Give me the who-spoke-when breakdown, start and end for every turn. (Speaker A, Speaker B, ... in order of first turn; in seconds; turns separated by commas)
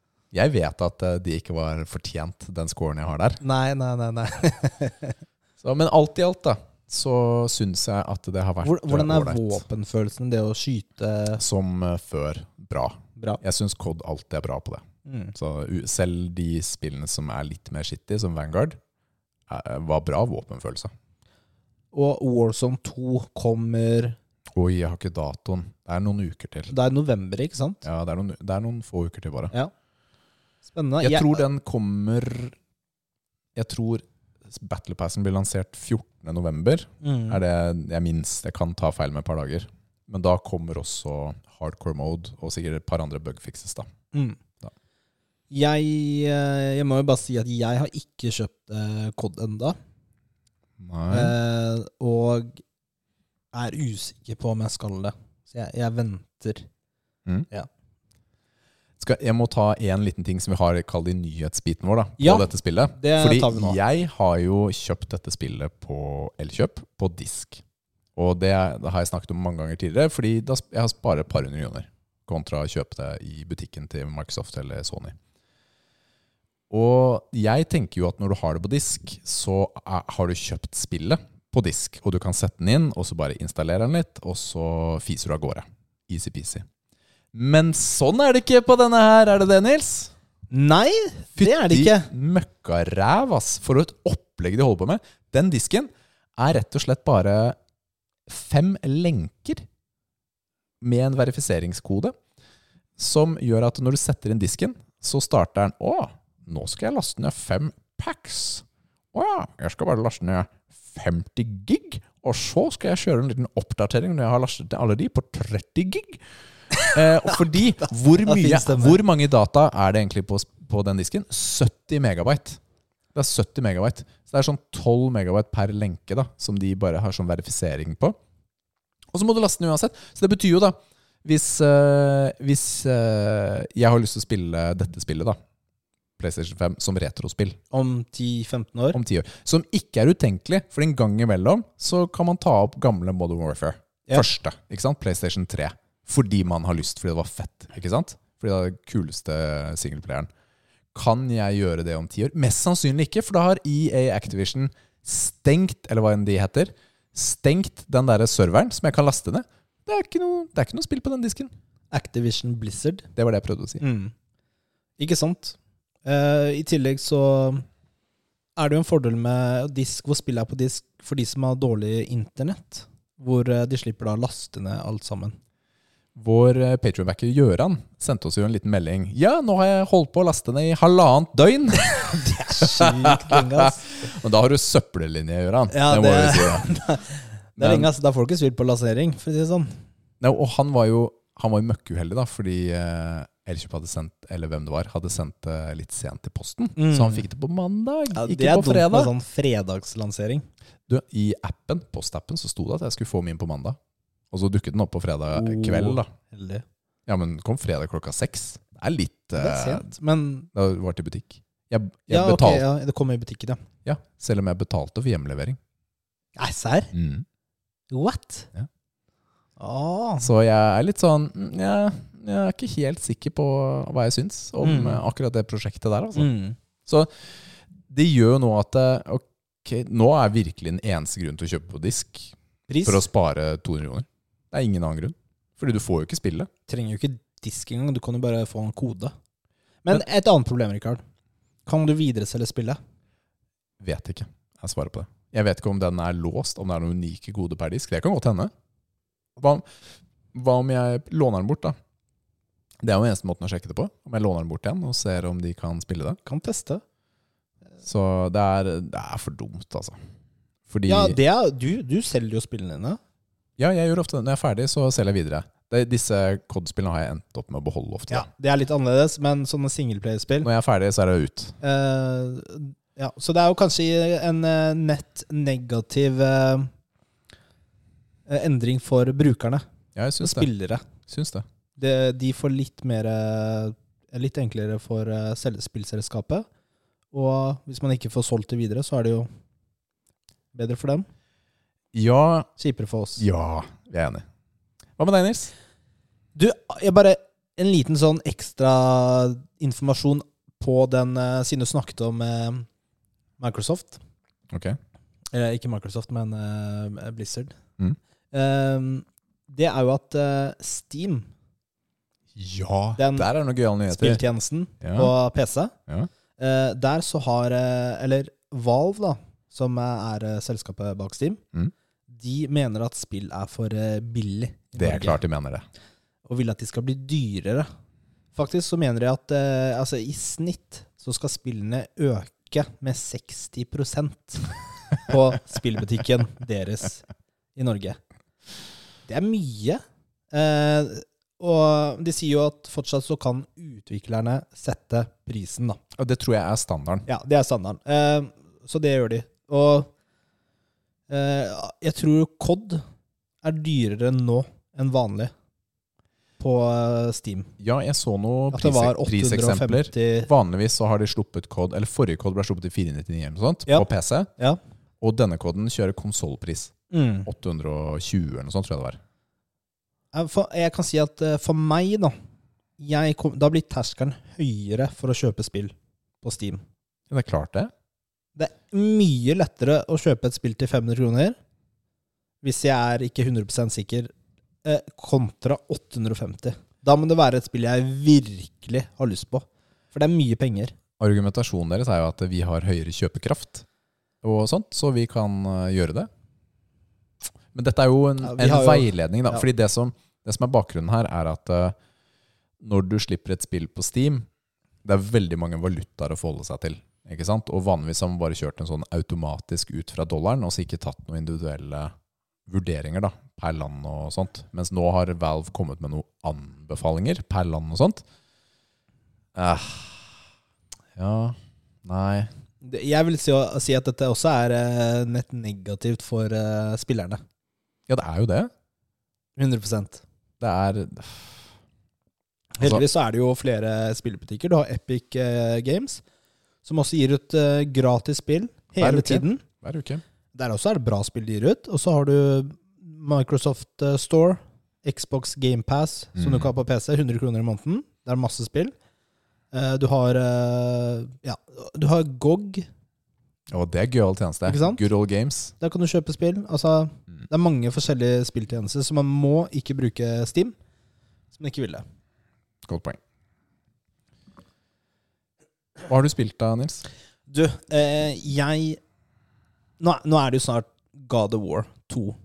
Speaker A: 0.3-3.4, Speaker B: 3.4-5.2, Speaker A: 5.6-9.6, Speaker B: 8.6-11.4, Speaker A: 11.4-14.8, Speaker B: 15.1-15.3, Speaker A: 15.3-18.8, Speaker A: 19.5-20.9, Speaker B: 21.9-24.2, Speaker A: 24.6-26.7, Speaker B: 26.7-27.8, Speaker A: 27.8-29.5, Speaker B: 30.7-31.4, Speaker A: 31.0-32.5, Speaker A: 33.5-43.9, Speaker B: 37.0-37.4, Speaker B: 44.1-44.4, Speaker B: 45.5-49.8, Speaker A: 50.8-51.3, Speaker B: 51.1-52.6, Speaker B: 53.5-56.7, Speaker A: 59.0-67.6, Speaker B: 62.2-63.8, Speaker A: 68.2-75.2, Speaker A: 76.7-86.7, Speaker A: 87.3-90.1, Speaker B: 90.5-92.1, Speaker A: 91.4-97.6, Speaker A: 98.3-99.7, Speaker A: 100.8-102.2, Speaker A: 103.0-116.2, Speaker A: 116.9-122.6, Speaker B: 118.2-119.0, Speaker A: 123.1-128.2, Speaker A: 129.1-135.4, Speaker A: 136.2-137.6, Speaker B: 137.7-139.0, Speaker A: 138.9-150.3, Speaker A: 150.9-161.5, Speaker B: 161.9-163.1, Speaker A: 163.2-163.8, Speaker B: 163.8-164.1, Speaker B: 165.0-167.7, Speaker B: 168.6-175.4, Speaker A: 176.2-186.7, Speaker B: 182.1-184.0, Speaker B: 185.7-189.7, Speaker A: 187.6-187.9, Speaker A: 190.2-199.1, Speaker B: 196.8-197.2, Speaker B: 198.1-200.4, Speaker A: 200.9-203.8, Speaker A: 204.3-206.1, Speaker B: 205.3-206.6, Speaker A: 207.1-209.9, Speaker B: 209.4-210.5, Speaker A: 210.5-212.6, Speaker B: 212.1-213.6, Speaker A: 213.8-215.6, Speaker B: 216.4-216.9, Speaker A: 216.9-217.2, Speaker B: 217.9-218.5, Speaker B: 219.6-220.3, Speaker A: 220.2-226.3, Speaker B: 224.6-225.0, Speaker B: 226.2-226.6, Speaker A: 226.9-227.3, Speaker A: 227.9-232.3, Speaker B: 232.7-233.1, Speaker A: 232.8-236.5, Speaker B: 236.7-239.1, Speaker B: 239.8-241.0, Speaker B: 241.7-242.8, Speaker A: 243.8-248.5, Speaker A: 249.4-249.6, Speaker A: 250.3-251.8, Speaker A: 252.8-256.2, Speaker B: 256.3-256.8, Speaker A: 257.8-260.0, Speaker A: 260.7-261.2, Speaker B: 260.9-263.0, Speaker A: 263.6-268.3, Speaker B: 268.1-270.5, Speaker A: 270.4-271.6, Speaker B: 271.6-276.7, Speaker B: 278.3-279.6, Speaker A: 279.9-280.5, Speaker B: 280.2-280.8, Speaker A: 281.1-281.4, Speaker B: 281.8-286.5, Speaker B: 287.1-289.3, Speaker B: 290.5-291.1, Speaker A: 291.9-292.5, Speaker B: 292.6-293.2, Speaker A: 293.2-294.2, Speaker A: 295.0-295.5, Speaker B: 296.4-302.7, Speaker B: 303.4-304.0, Speaker A: 304.5-304.8, Speaker B: 305.3-307.6, Speaker B: 308.3-311.3, Speaker A: 312.4-314.2, Speaker B: 313.0-313.3, Speaker B: 313.9-315.7, Speaker A: 314.8-315.1, Speaker B: 316.4-321.4, Speaker B: 322.1-325.2, Speaker A: 324.8-325.7, Speaker B: 326.3-327.7, Speaker B: 328.4-337.1, Speaker B: 337.6-338.0, Speaker B: 339.1-345.8, Speaker A: 346.0-347.1, Speaker B: 347.1-349.9, Speaker B: 351.1-352.8, Speaker B: 353.4-355.3, Speaker B: 356.4-357.5, Speaker A: 357.6-364.3, Speaker B: 358.5-360.3, Speaker A: 365.0-366.7, Speaker B: 366.9-367.3, Speaker A: 367.3-369.0, Speaker B: 370.1-372.1, Speaker B: 372.8-376.6, Speaker A: 377.1-377.7, Speaker B: 378.4-381.4, Speaker B: 382.4-384.1, Speaker B: 384.6-390.7, Speaker A: 391.0-393.6, Speaker A: 394.2-396.1, Speaker A: 397.5-401.8, Speaker B: 398.2-399.4, Speaker A: 402.6-404.3, Speaker A: 404.8-411.9, Speaker A: 412.5-418.0, Speaker A: 419.4-420.2, Speaker A: 421.0-422.3, Speaker B: 422.6-427.2, Speaker A: 427.9-428.5, Speaker B: 429.4-430.0, Speaker A: 430.4-431.4, Speaker B: 432.6-436.0, Speaker B: 436.6-439.4, Speaker A: 438.8-440.0, Speaker B: 440.3-448.7, Speaker A: 446.2-446.5, Speaker B: 449.5-452.7, Speaker A: 453.5-455.5, Speaker B: 454.5-454.8, Speaker B: 455.6-460.6, Speaker B: 461.3-461.8, Speaker A: 462.6-463.0, Speaker A: 465.9-466.9, Speaker B: 467.3-468.8, Speaker B: 469.8-472.2